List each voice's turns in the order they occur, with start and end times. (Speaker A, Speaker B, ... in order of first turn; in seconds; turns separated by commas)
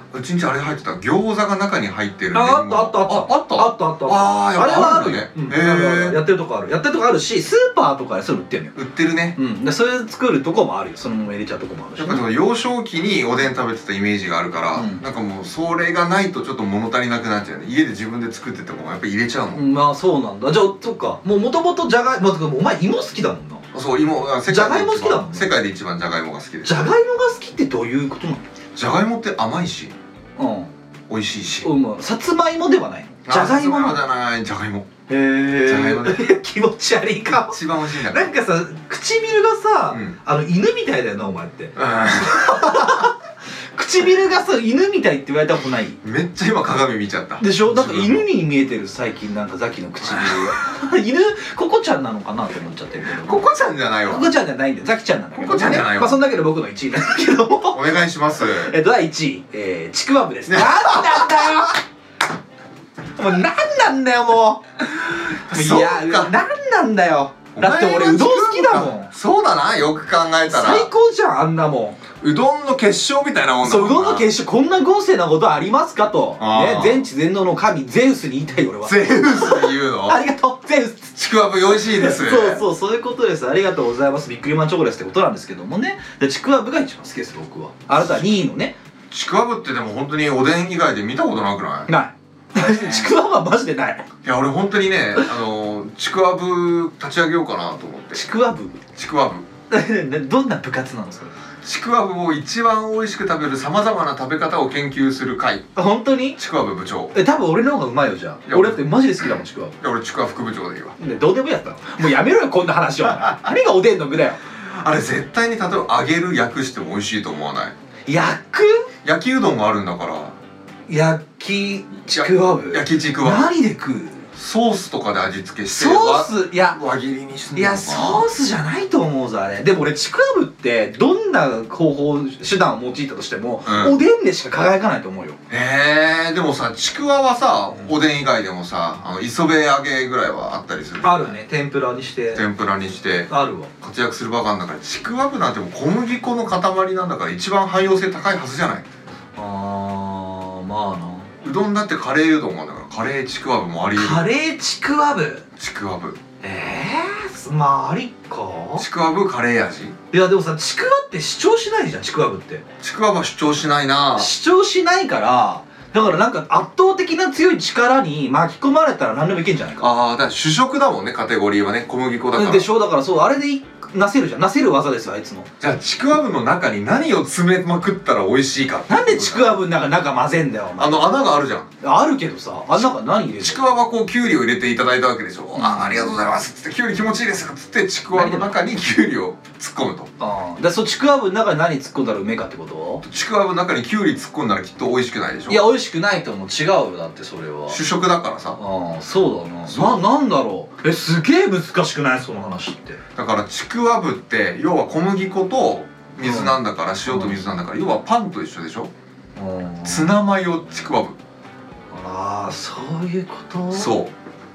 Speaker A: 0.1-6.2, Speaker B: 2.3-8.7, Speaker A: 8.7-9.4, Speaker B: 9.3-12.2, Speaker A: 12.0-19.6, Speaker B: 14.7-15.0, Speaker B: 19.5-23.6, Speaker A: 23.7-26.9, Speaker B: 24.5-25.5, Speaker B: 26.6-28.4, Speaker A: 28.8-29.9, Speaker B: 30.4-30.7, Speaker A: 31.1-31.7, Speaker B: 31.6-34.0, Speaker A: 33.2-35.0, Speaker B: 35.1-43.1, Speaker A: 35.6-36.3, Speaker A: 37.4-38.3, Speaker A: 41.8-43.0, Speaker B: 43.7-46.0, Speaker A: 46.0-48.2, Speaker B: 47.4-53.4, Speaker A: 50.0-50.5, Speaker A: 53.0-54.3, Speaker B: 54.1-57.8, Speaker A: 55.3-56.2, Speaker A: 57.7-58.7, Speaker B: 58.5-61.8, Speaker A: 60.5-61.6, Speaker B: 63.2-69.1, Speaker A: 65.3-66.3, Speaker A: 67.5-70.9, Speaker B: 70.5-72.0, Speaker A: 72.2-74.3, Speaker B: 73.6-81.1, Speaker A: 76.4-77.0, Speaker A: 78.8-80.2, Speaker A: 81.2-82.6, Speaker B: 81.7-88.7, Speaker A: 89.1-91.9, Speaker B: 91.9-94.0, Speaker A: 92.6-93.1, Speaker A: 94.2-98.3, Speaker B: 98.1-98.8, Speaker A: 98.9-99.5, Speaker B: 99.7-101.3, Speaker A: 101.6-105.7, Speaker B: 105.7-106.4, Speaker A: 106.4-107.1, Speaker B: 107.1-109.7, Speaker A: 108.5-111.0, Speaker B: 111.0-114.4, Speaker A: 114.6-117.7, Speaker B: 118.1-118.9, Speaker A: 119.0-120.3, Speaker B: 120.9-124.2, Speaker A: 122.1-123.5, Speaker A: 124.3-128.2, Speaker B: 125.7-126.8, Speaker B: 127.5-135.4, Speaker A: 133.7-134.0, Speaker A: 135.5-141.3, Speaker B: 141.0-142.4, Speaker A: 142.3-143.3, Speaker B: 143.3-143.7, Speaker A: 143.8-148.8, Speaker B: 149.4-151.3, Speaker A: 151.4-154.3, Speaker B: 153.9-155.4, Speaker A: 155.6-156.2, Speaker B: 156.4-158.8, Speaker A: 158.8-159.9, Speaker B: 160.1-162.6, Speaker A: 162.8-164.3, Speaker B: 164.2-169.9, Speaker A: 169.8-172.7, Speaker B: 172.3-175.5, Speaker A: 175.6-179.6, Speaker B: 178.9-181.1, Speaker A: 180.8-181.7, Speaker B: 181.8-183.6, Speaker A: 183.4-190.1, Speaker B: 185.6-186.1, Speaker B: 188.1-188.6, Speaker B: 190.2-193.0, Speaker A: 193.0-195.6, Speaker B: 195.5-197.8, Speaker A: 197.7-198.6, Speaker B: 198.6-203.0, Speaker A: 199.7-200.0, Speaker A: 203.2-208.9, Speaker B: 206.2-207.3, Speaker B: 209.3-210.1, Speaker A: 209.8-211.2, Speaker B: 211.9-213.9, Speaker A: 213.7-214.1